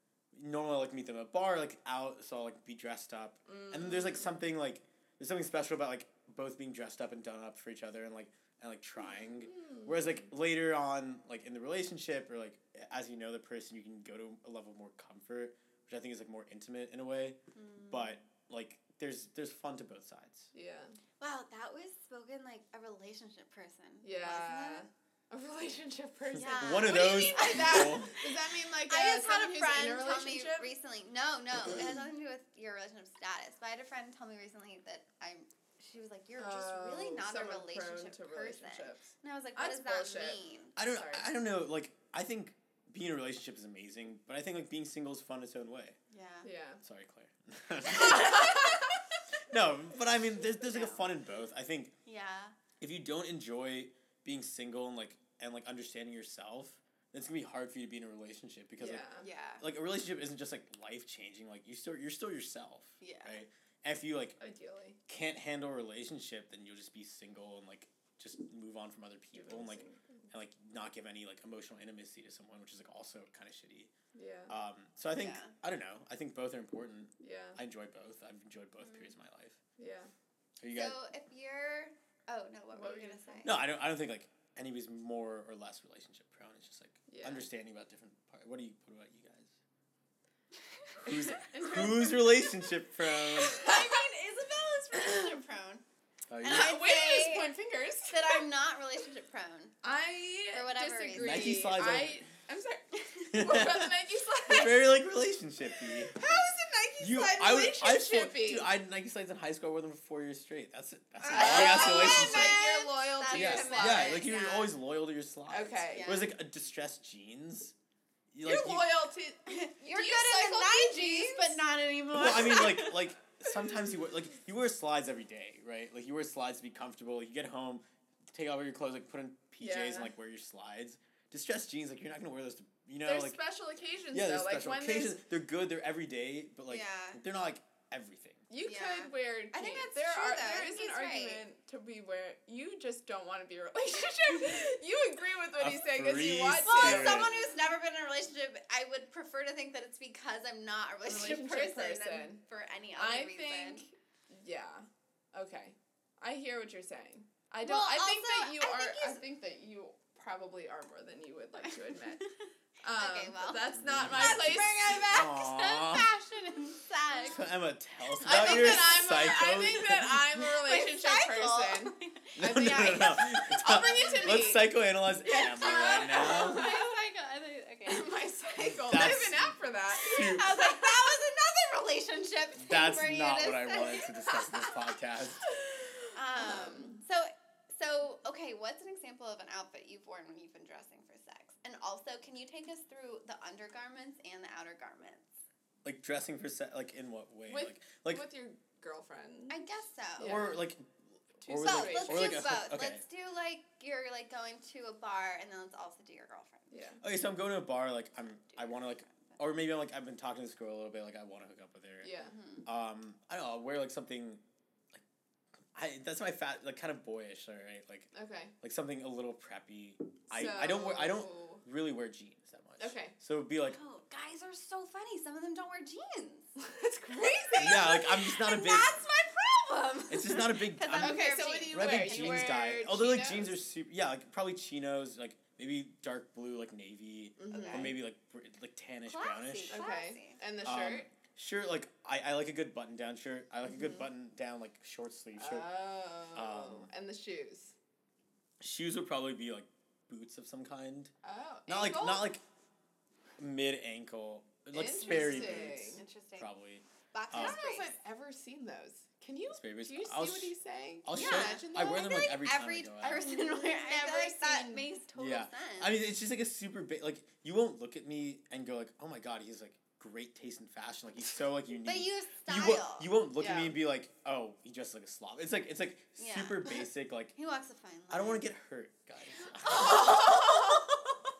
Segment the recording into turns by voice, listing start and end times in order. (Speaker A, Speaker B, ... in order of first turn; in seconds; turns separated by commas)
Speaker A: 0.3-17.4, Speaker B: 3.5-4.3, Speaker B: 9.2-10.3, Speaker C: 17.5-18.2, Speaker A: 17.9-20.5, Speaker B: 20.5-21.0, Speaker C: 21.2-24.9, Speaker B: 24.0-30.7, Speaker C: 26.3-28.0, Speaker A: 26.5-28.1, Speaker C: 28.9-40.7, Speaker B: 36.4-41.2, Speaker A: 40.8-46.0, Speaker C: 46.1-46.5, Speaker B: 46.4-46.8, Speaker A: 46.8-48.8, Speaker C: 47.9-48.6, Speaker B: 48.2-48.7, Speaker A: 49.5-51.9, Speaker C: 50.6-51.0, Speaker C: 52.0-52.5, Speaker A: 52.8-59.1, Speaker B: 58.8-59.3, Speaker C: 59.2-59.6, Speaker A: 59.6-64.4, Speaker C: 63.0-63.4, Speaker B: 64.4-65.0, Speaker A: 65.1-73.9, Speaker B: 69.3-70.2, Speaker B: 74.1-74.5, Speaker A: 74.5-79.6, Speaker C: 75.1-75.5, Speaker B: 77.2-77.6, Speaker C: 78.8-79.1, Speaker B: 79.8-80.1, Speaker A: 80.6-81.0, Speaker C: 80.7-83.6, Speaker B: 82.7-83.4, Speaker A: 83.4-89.5, Speaker B: 87.1-87.5, Speaker B: 91.0-92.5, Speaker A: 91.0-93.5, Speaker C: 93.4-95.8, Speaker B: 93.4-94.0, Speaker A: 96.3-96.8, Speaker C: 96.4-97.5, Speaker B: 96.4-98.4, Speaker C: 98.1-99.7, Speaker B: 99.8-105.0, Speaker C: 100.5-101.7, Speaker A: 101.1-102.2, Speaker A: 103.3-104.0, Speaker A: 104.5-106.2, Speaker B: 105.8-108.7, Speaker A: 107.0-112.6, Speaker C: 111.2-114.7, Speaker B: 111.3-114.2, Speaker A: 113.3-117.7, Speaker B: 115.5-116.2, Speaker C: 115.9-116.3, Speaker A: 118.3-119.0, Speaker B: 118.4-121.6, Speaker C: 119.5-123.1, Speaker A: 122.1-133.4, Speaker B: 129.6-130.1, Speaker B: 133.1-135.2, Speaker A: 134.1-138.4, Speaker C: 136.7-137.2, Speaker B: 138.5-147.3, Speaker C: 138.6-141.4, Speaker A: 145.6-147.3, Speaker C: 146.6-153.8, Speaker B: 151.1-152.4, Speaker B: 153.0-162.2, Speaker C: 157.6-159.2, Speaker C: 161.6-167.5, Speaker B: 162.8-165.3, Speaker A: 163.7-166.1, Speaker A: 167.2-170.2, Speaker C: 168.0-169.9, Speaker B: 168.2-174.7, Speaker C: 170.4-174.3, Speaker A: 172.4-176.7, Speaker B: 175.2-176.9, Speaker C: 175.2-178.1, Speaker B: 177.8-180.9, Speaker A: 178.6-180.6, Speaker C: 180.0-184.9, Speaker A: 182.6-185.5, Speaker B: 185.6-187.0, Speaker C: 186.1-195.3, Speaker A: 195.8-198.2, Speaker B: 197.5-199.6, Speaker C: 199.5-200.4, Speaker B: 200.2-200.6, Speaker A: 200.2-203.0, Speaker B: 201.4-202.4, Speaker C: 201.6-206.7, Speaker B: 206.7-207.0, Speaker A: 207.0-212.1, Speaker C: 208.5-209.4, Speaker B: 212.0-212.3, Speaker C: 212.2-212.7, Speaker A: 212.7-214.4, Speaker A: 215.7-218.1, Speaker B: 218.1-218.5, Speaker A: 218.6-223.8, Speaker B: 220.3-221.6, Speaker B: 222.8-223.1, Speaker C: 223.6-226.5, Speaker B: 226.6-228.0, Speaker A: 227.6-228.9, Speaker C: 227.6-232.5, Speaker A: 230.1-239.8, Speaker B: 231.0-233.5, Speaker B: 237.4-238.0, Speaker C: 237.5-237.9, Speaker C: 239.1-240.4, Speaker B: 239.7-241.1, Speaker A: 240.6-245.7, Speaker B: 243.7-244.1, Speaker B: 245.4-247.8, Speaker A: 246.3-246.9, Speaker A: 248.6-251.1, Speaker B: 251.2-252.3, Speaker A: 251.7-252.4, Speaker A: 253.4-257.6, Speaker B: 254.7-256.0, Speaker C: 255.0-256.5, Speaker C: 257.1-257.9, Speaker B: 257.3-262.1, Speaker A: 259.5-263.2, Speaker C: 261.1-266.0, Speaker B: 263.0-264.9, Speaker A: 265.1-277.3, Speaker C: 271.7-273.1, Speaker B: 273.4-273.7, Speaker C: 276.2-276.8, Speaker C: 277.3-278.4, Speaker A: 278.1-280.1, Speaker B: 279.6-281.2, Speaker C: 279.8-280.1